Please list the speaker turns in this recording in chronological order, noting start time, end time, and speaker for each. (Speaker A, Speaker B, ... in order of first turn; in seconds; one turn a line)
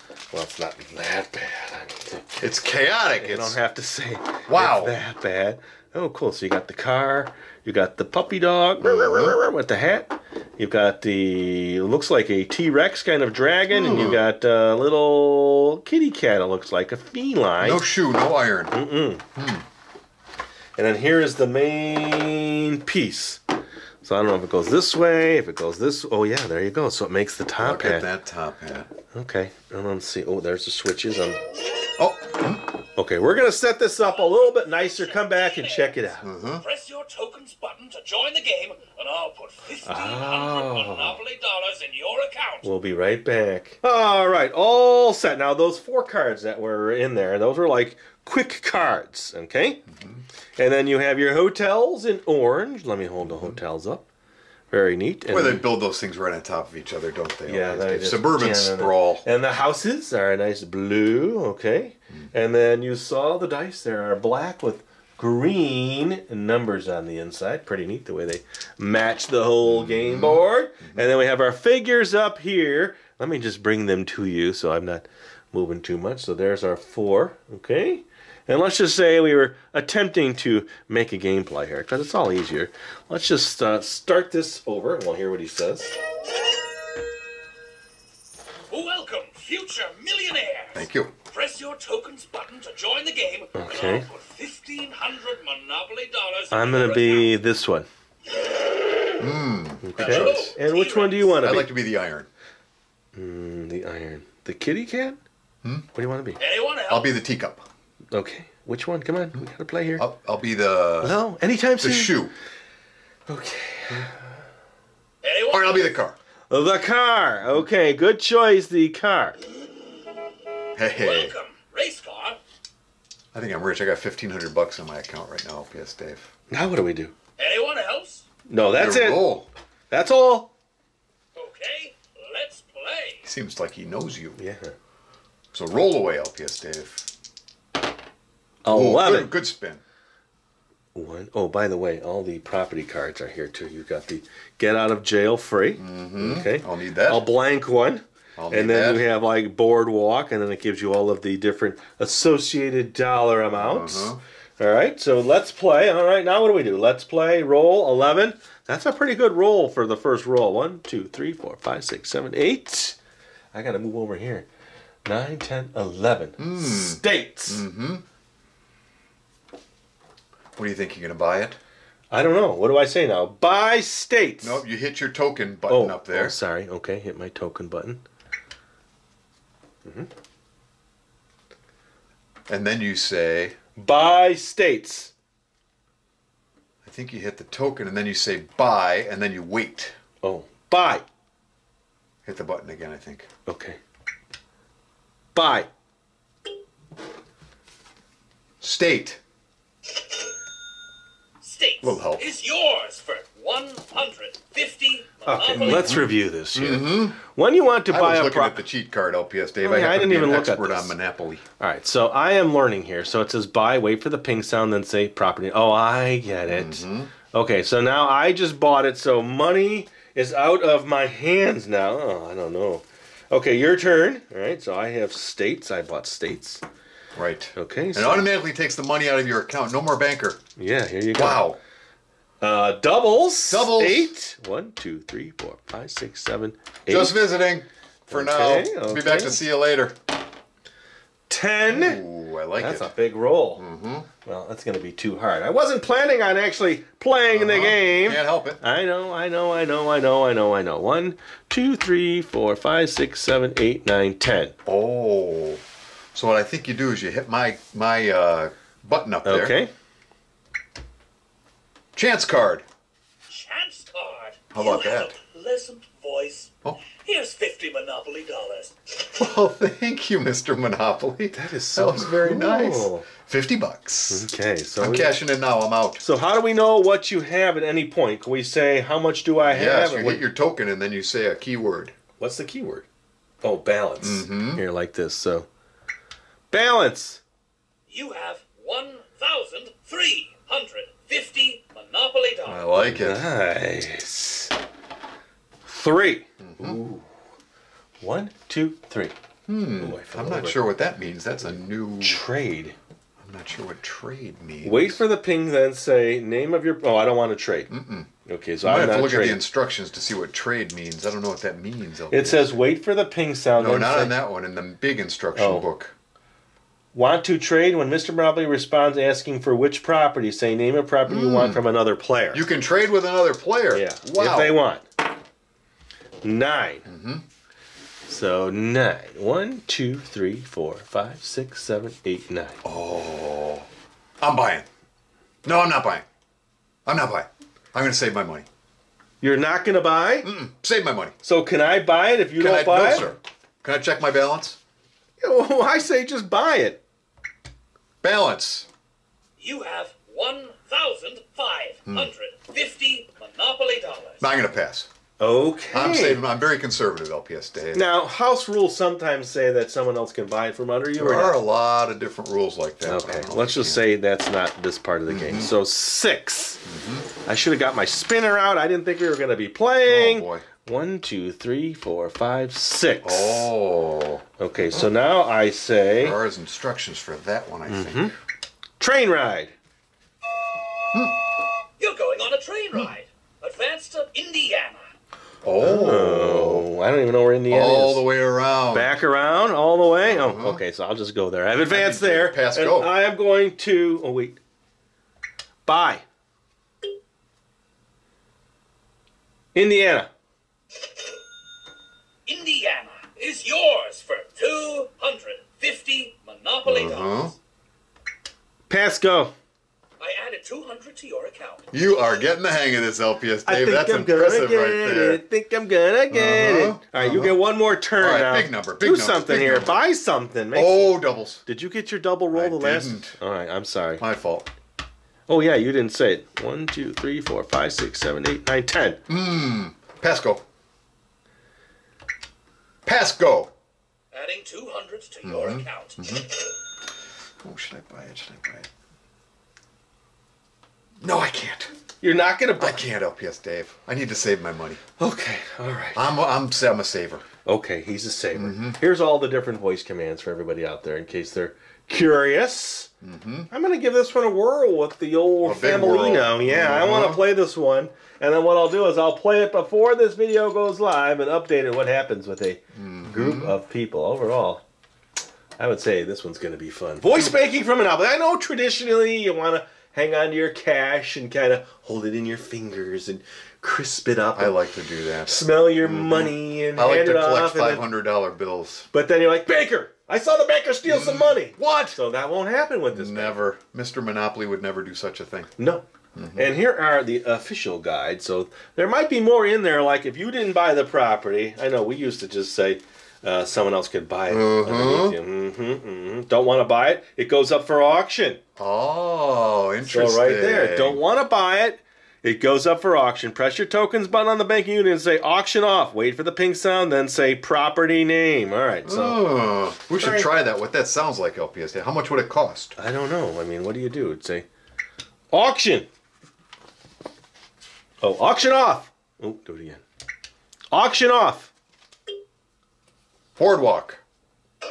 Speaker A: 0.3-2.5
Speaker B: 2.4-3.6
Speaker A: 3.2-17.9
Speaker B: 4.5-5.0
Speaker B: 8.8-9.4
Speaker B: 13.7-14.2
Speaker B: 17.6-18.8
Speaker A: 18.7-19.2
Speaker B: 19.4-19.6
Speaker A: 20.8-23.4
Speaker A: 24.0-28.1
Speaker B: 27.6-28.9
Speaker A: 29.1-31.4
Speaker B: 32.0-32.6
Speaker A: 33.0-36.2
Speaker C: 34.0-42.7
Speaker B: 36.2-36.6
Speaker A: 39.9-41.2
Speaker A: 42.6-49.9
Speaker B: 49.9-50.2
Speaker A: 50.6-54.1
Speaker B: 53.3-53.6
Speaker A: 54.7-55.7
Speaker B: 55.3-59.2
Speaker A: 57.5-85.9
Speaker B: 69.7-71.1
Speaker C: 88.7-97.3
Speaker B: 90.7-91.1
Speaker A: 93.5-94.1
Speaker A: 96.5-97.9
Speaker B: 99.2-100.6
Speaker A: 99.8-101.7
Speaker C: 100.0-101.5
Speaker B: 101.4-102.3
Speaker A: 103.2-105.2
Speaker A: 105.9-106.4
Speaker C: 106.4-107.1
Speaker B: 106.9-107.7
Speaker A: 108.1-110.0
Speaker B: 110.0-111.2
Speaker A: 111.0-112.2
Speaker B: 111.8-112.3
Speaker A: 113.3-114.2
Speaker C: 115.2-115.9
Speaker B: 115.5-116.2
Speaker A: 116.5-119.4
Speaker B: 120.8-121.4
Speaker C: 120.9-122.4
Speaker B: 123.3-126.3
Speaker A: 126.5-127.1
Speaker C: 127.4-128.3
Speaker A: 128.5-129.4
Speaker B: 128.7-129.5
Speaker A: 129.9-130.5
Speaker C: 131.3-133.2
Speaker B: 133.2-134.4
Speaker A: 134.4-134.8
Speaker B: 135.5-137.1
Speaker A: 138.6-139.3
Speaker B: 138.7-139.8
Speaker A: 140.9-163.0
Speaker B: 145.8-147.2
Speaker B: 148.4-149.1
Speaker B: 153.6-154.2
Speaker A: 163.5-164.5
Speaker A: 165.1-167.6
Speaker B: 166.4-168.0
Speaker B: 170.6-171.6
Speaker A: 172.1-174.6
Speaker B: 174.4-176.3
Speaker A: 175.7-178.0
Speaker B: 182.5-183.6
Speaker A: 183.8-185.1
Speaker B: 186.8-189.9
Speaker A: 190.2-191.1
Speaker B: 192.2-193.3
Speaker A: 193.5-193.8
Speaker A: 195.3-195.7
Speaker B: 198.6-199.2
Speaker C: 201.4-205.9
Speaker B: 201.8-202.3
Speaker A: 205.2-208.6
Speaker B: 205.5-207.2
Speaker B: 207.9-211.4
Speaker A: 209.6-210.9
Speaker A: 211.6-226.6
Speaker B: 216.5-217.1
Speaker B: 227.2-230.4
Speaker A: 227.6-228.3
Speaker A: 230.6-231.5
Speaker B: 231.2-231.6
Speaker A: 232.4-237.2
Speaker B: 233.5-234.1
Speaker B: 236.9-239.9
Speaker A: 238.1-239.4
Speaker A: 241.3-242.0
Speaker B: 241.7-242.9
Speaker A: 242.6-243.6
Speaker B: 243.6-244.1
Speaker A: 244.2-254.6
Speaker B: 247.3-248.6
Speaker B: 254.7-255.6
Speaker B: 256.1-259.6
Speaker A: 259.2-259.7
Speaker B: 261.9-262.6
Speaker C: 263.3-268.7
Speaker B: 264.5-265.1
Speaker B: 269.0-274.3
Speaker A: 271.3-273.1
Speaker A: 274.1-275.1
Speaker B: 274.8-276.0
Speaker A: 276.0-280.3
Speaker B: 279.4-281.9
Speaker A: 282.2-282.9
Speaker A: 283.4-285.5
Speaker B: 284.0-284.6
Speaker A: 286.5-287.2
Speaker C: 287.9-292.7
Speaker B: 292.5-293.2
Speaker A: 292.8-294.5
Speaker A: 295.6-297.1
Speaker B: 296.4-296.8
Speaker A: 298.0-299.1
Speaker B: 299.5-302.2
Speaker A: 299.8-300.6
Speaker A: 302.0-302.8
Speaker B: 303.2-305.0
Speaker A: 304.6-307.7
Speaker B: 307.7-308.1
Speaker A: 308.3-309.4
Speaker B: 308.6-312.5
Speaker A: 312.1-314.2
Speaker B: 313.6-315.9
Speaker A: 315.4-315.7
Speaker A: 316.9-322.5
Speaker B: 321.1-321.6
Speaker B: 322.3-324.6
Speaker A: 323.7-324.9
Speaker A: 326.2-326.9
Speaker B: 326.9-327.2
Speaker A: 328.1-332.6
Speaker B: 332.6-333.7
Speaker B: 334.2-334.7
Speaker B: 335.4-336.1
Speaker B: 336.9-338.5
Speaker A: 339.2-340.3
Speaker B: 340.2-341.1
Speaker A: 341.2-343.1
Speaker B: 342.4-344.6
Speaker A: 345.2-346.8
Speaker B: 348.0-348.7
Speaker C: 349.4-354.2
Speaker B: 351.9-352.1
Speaker B: 354.2-354.9
Speaker A: 355.2-356.2
Speaker B: 355.7-357.9
Speaker A: 357.7-361.4
Speaker B: 361.0-363.9
Speaker A: 362.8-366.6
Speaker B: 365.1-365.5
Speaker B: 366.7-367.1
Speaker A: 367.2-373.5
Speaker B: 369.9-370.4
Speaker B: 373.0-374.9
Speaker A: 374.4-376.2
Speaker B: 376.0-378.1
Speaker A: 377.7-378.1
Speaker A: 378.8-379.5
Speaker B: 380.9-381.2
Speaker C: 381.8-384.9
Speaker B: 385.4-386.7
Speaker A: 385.6-388.0
Speaker B: 387.5-389.0
Speaker A: 388.7-394.4
Speaker B: 390.0-390.6
Speaker B: 391.7-392.9
Speaker A: 395.7-396.0
Speaker A: 399.6-400.1
Speaker C: 402.3-407.4
Speaker B: 406.6-407.3
Speaker A: 408.7-409.3
Speaker C: 410.0-411.7
Speaker B: 411.7-415.2
Speaker A: 413.5-424.0
Speaker B: 416.1-417.4
Speaker B: 418.0-419.8
Speaker B: 420.5-421.4
Speaker B: 422.3-423.2
Speaker B: 424.0-424.5
Speaker A: 425.3-429.0
Speaker B: 429.1-430.4
Speaker B: 432.9-433.5
Speaker C: 434.1-436.2
Speaker B: 435.2-436.4
Speaker B: 437.4-438.7
Speaker B: 441.0-441.7
Speaker A: 442.0-442.8
Speaker B: 442.6-444.8
Speaker A: 445.0-446.1
Speaker B: 445.9-447.2
Speaker A: 447.4-452.9
Speaker B: 448.3-448.8
Speaker B: 453.0-453.5
Speaker A: 453.5-464.6
Speaker B: 455.4-457.2
Speaker B: 462.8-463.6
Speaker A: 465.6-474.6
Speaker B: 474.4-478.9
Speaker A: 475.2-477.9
Speaker A: 478.9-483.4
Speaker B: 480.9-482.0
Speaker B: 482.9-485.5
Speaker A: 485.6-498.4
Speaker B: 486.1-486.6
Speaker B: 494.3-495.2
Speaker B: 498.6-501.0
Speaker A: 499.8-509.4
Speaker B: 508.9-512.8
Speaker A: 510.0-510.3
Speaker A: 512.8-514.5
Speaker A: 515.3-515.9
Speaker A: 518.0-519.8
Speaker A: 520.7-521.5
Speaker B: 523.4-524.0